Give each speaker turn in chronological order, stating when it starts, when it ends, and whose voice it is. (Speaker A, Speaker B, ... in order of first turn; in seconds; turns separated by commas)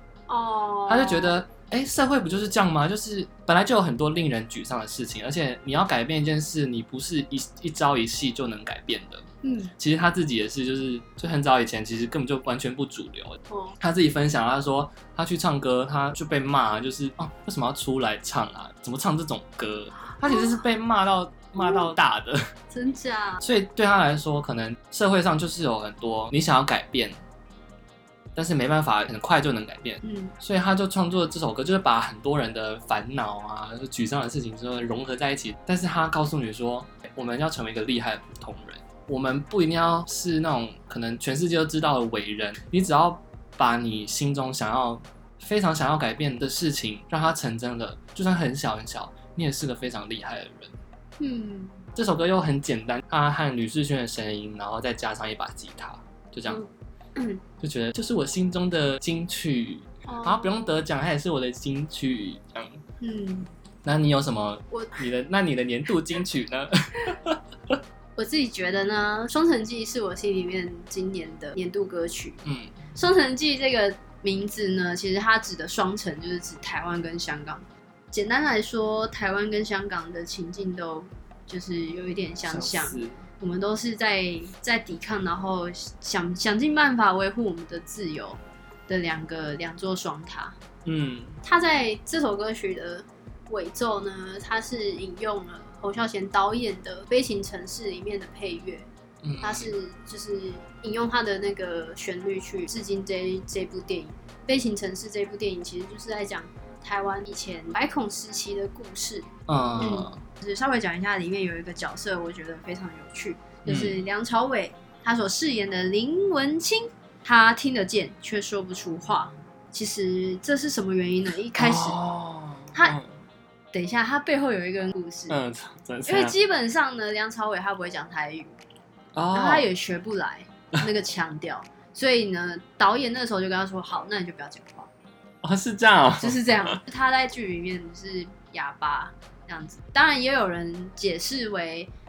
Speaker A: 0.3-1.4, Speaker B: 0.9-9.3, Speaker A: 9.4-9.7, Speaker B: 9.8-22.5, Speaker A: 13.5-13.8, Speaker A: 20.2-20.6, Speaker A: 21.6-21.9, Speaker A: 22.7-23.4, Speaker B: 23.4-27.2, Speaker B: 28.4-50.7, Speaker A: 30.0-30.4, Speaker A: 51.2-51.9, Speaker B: 52.0-56.6, Speaker A: 56.5-57.4, Speaker B: 57.6-62.8, Speaker A: 60.1-60.8, Speaker A: 63.0-63.5, Speaker B: 63.8-67.4, Speaker A: 64.7-65.0, Speaker A: 68.2-90.6, Speaker B: 72.5-72.8, Speaker B: 82.5-83.2, Speaker B: 90.8-91.4, Speaker A: 91.4-98.9, Speaker B: 99.2-99.8, Speaker A: 99.4-122.0, Speaker B: 109.5-110.2, Speaker B: 113.7-114.0, Speaker B: 121.5-123.1, Speaker A: 123.7-125.4, Speaker B: 125.3-126.4, Speaker A: 126.1-128.5, Speaker B: 129.2-129.7, Speaker A: 129.3-134.9, Speaker B: 135.4-136.8, Speaker A: 136.2-141.9